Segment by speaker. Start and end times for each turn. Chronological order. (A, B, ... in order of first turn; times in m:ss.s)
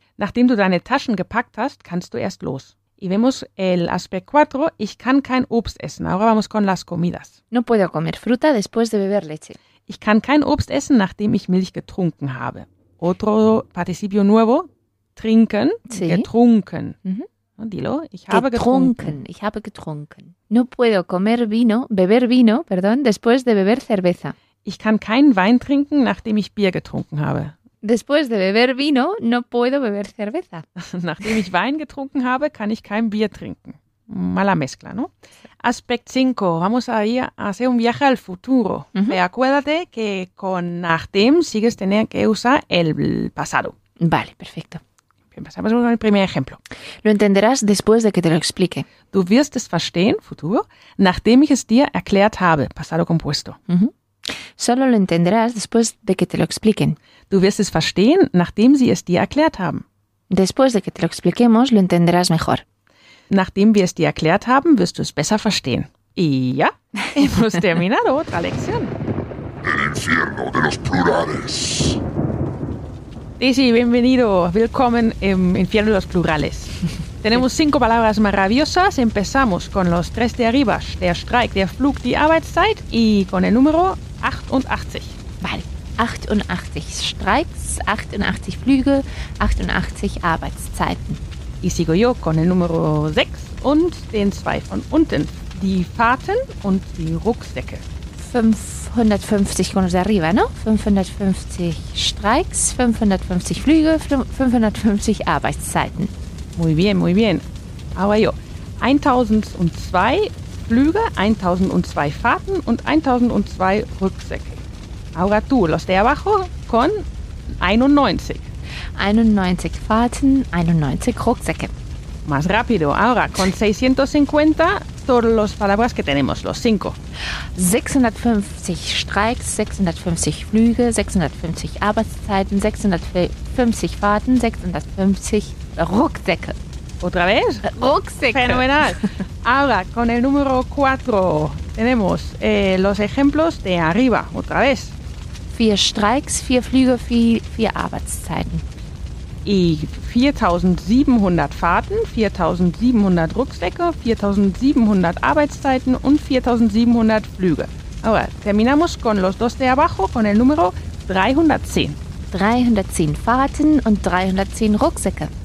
0:00.2-0:07.4 A
0:07.5-0:09.6 B
0:09.9-0:17.0 A
0:15.9-0:16.3 B
0:17.6-0:19.2 A
0:18.3-0:24.4 B
0:24.6-0:27.5 A
0:27.8-0:30.6 B
0:30.8-0:43.8 A
0:44.0-0:44.8 B
0:45.3-0:46.6 A
0:47.0-0:48.9 B
0:49.1-0:53.6 A
0:53.7-0:57.0 B
0:57.3-0:59.8 A
1:00.3-1:02.6 B
1:03.3-1:08.9 A
1:09.6-1:12.0 C
1:13.4-1:25.2 A
1:25.4-1:31.2 B
1:31.6-1:37.8 A
1:38.2-1:46.1 B
1:46.6-1:54.6 A
1:55.1-1:58.5 A
1:59.0-2:01.7 B
2:02.2-2:07.0 A
2:07.5-2:16.6 B
2:17.0-2:17.7 A
2:17.6-2:19.0 B
2:18.3-2:25.0 A
2:25.5-2:28.6 B
2:29.4-2:42.0 A
2:42.3-2:45.3 B